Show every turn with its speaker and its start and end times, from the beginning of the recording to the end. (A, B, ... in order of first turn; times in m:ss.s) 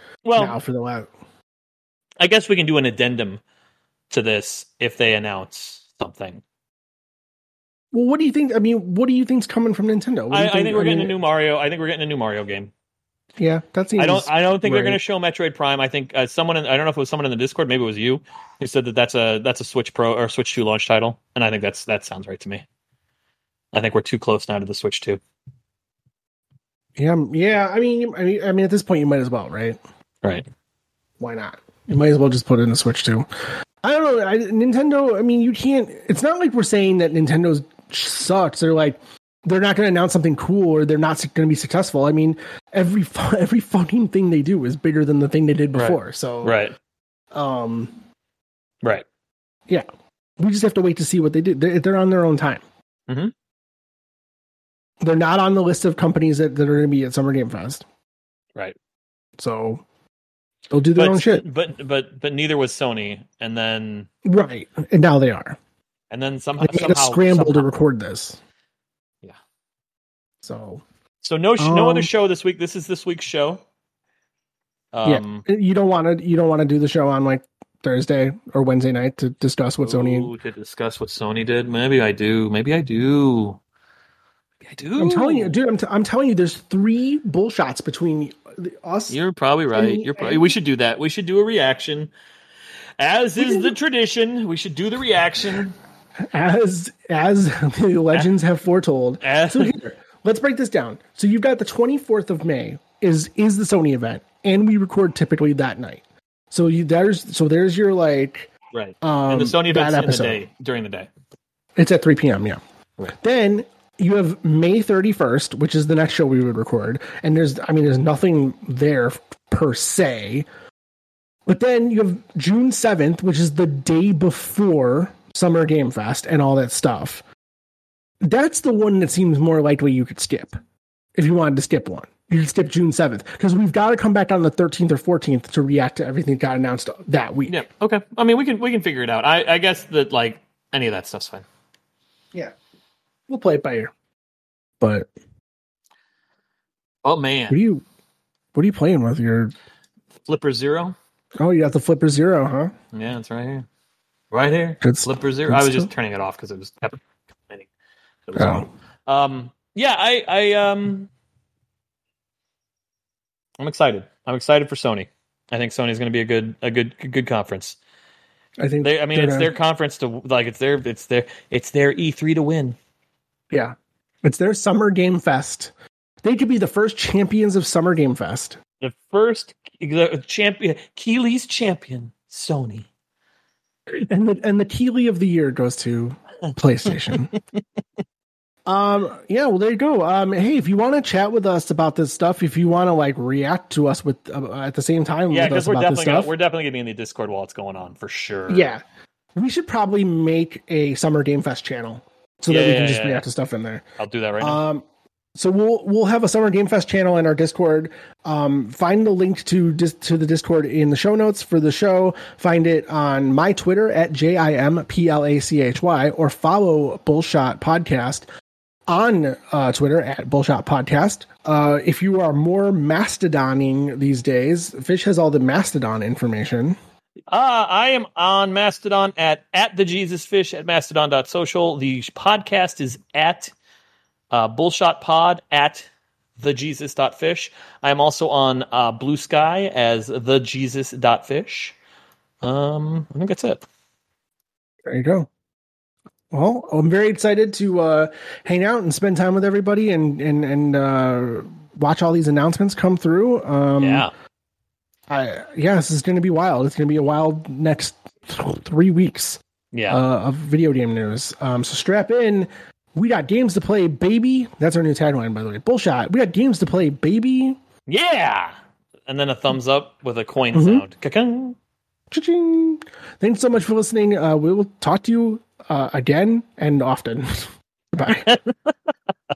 0:00.2-0:00.6 A
0:00.4-0:01.1 B
0:02.2-0:03.4 A
0:04.1-0:06.4 A
0:07.9-0:11.1 B
0:10.3-0:12.7 A
0:13.4-0:15.0 B
0:14.0-0:22.6 A
0:23.7-0:25.2 A
0:27.0-0:29.8 B
0:31.2-0:33.3 B
0:33.8-0:46.6 B
0:45.7-0:46.7 A
0:47.3-0:48.0 B
0:50.4-0:52.6 B
0:53.1-0:53.3 A
0:55.0-0:57.8 B
0:59.4-0:59.8 B
1:00.7-1:01.4 B
1:01.0-1:04.1 A
1:04.2-1:05.6 B
1:06.1-1:07.7 A
1:06.6-1:08.4 B
1:10.4-1:10.8 B
1:11.2-1:13.6 A
1:11.6-1:12.1 B
1:14.9-1:15.4 A
1:15.0-1:20.3 B
1:19.8-1:23.6 A
1:24.6-1:25.6 A
1:25.0-1:29.2 B
1:29.1-1:32.1 A
1:29.7-1:30.5 B
1:33.0-1:35.7 A
1:33.4-1:33.7 B
1:36.3-1:48.5 B
1:39.2-1:39.8 A
1:48.7-1:51.1 A
1:49.0-1:50.4 B
1:51.8-1:52.6 B
1:53.2-2:00.4 B
2:01.4-2:07.2 B
2:08.2-2:10.5 B
2:11.1-2:17.6 B
2:17.5-2:21.4 A
2:23.3-2:23.9 B
2:24.8-2:25.1 B
2:27.0-2:27.6 A
2:27.5-2:27.8 B
2:28.5-2:29.5 B
2:30.3-2:31.0 A
2:31.4-2:32.7 B
2:32.9-2:33.6 A
2:34.3-2:37.7 A
2:34.8-2:35.9 B
2:38.3-2:41.1 A
2:38.4-2:38.7 B
2:43.6-2:47.8 A
2:48.6-2:49.5 B
2:48.8-2:52.8 A
2:53.5-2:55.7 B
2:56.2-2:58.6 B
2:58.8-3:02.9 A
3:03.9-3:07.3 B
3:08.6-3:16.3 B
3:15.3-3:18.7 A
3:18.5-3:18.8 B
3:19.3-3:23.8 B
3:22.5-3:23.2 A
3:24.0-3:24.6 A
3:24.4-3:38.3 B
3:38.9-3:46.8 B
3:47.3-3:53.5 A
3:54.3-3:55.9 A
3:56.4-4:01.8 A
4:02.4-4:03.6 A
4:04.8-4:05.3 B
4:06.3-4:14.1 B
4:13.8-4:14.1 A
4:15.1-4:27.6 B
4:19.7-4:20.0 A
4:27.9-4:28.5 A
4:29.1-4:31.6 A
4:30.5-4:30.8 B
4:32.1-4:38.3 B
4:38.1-4:38.7 A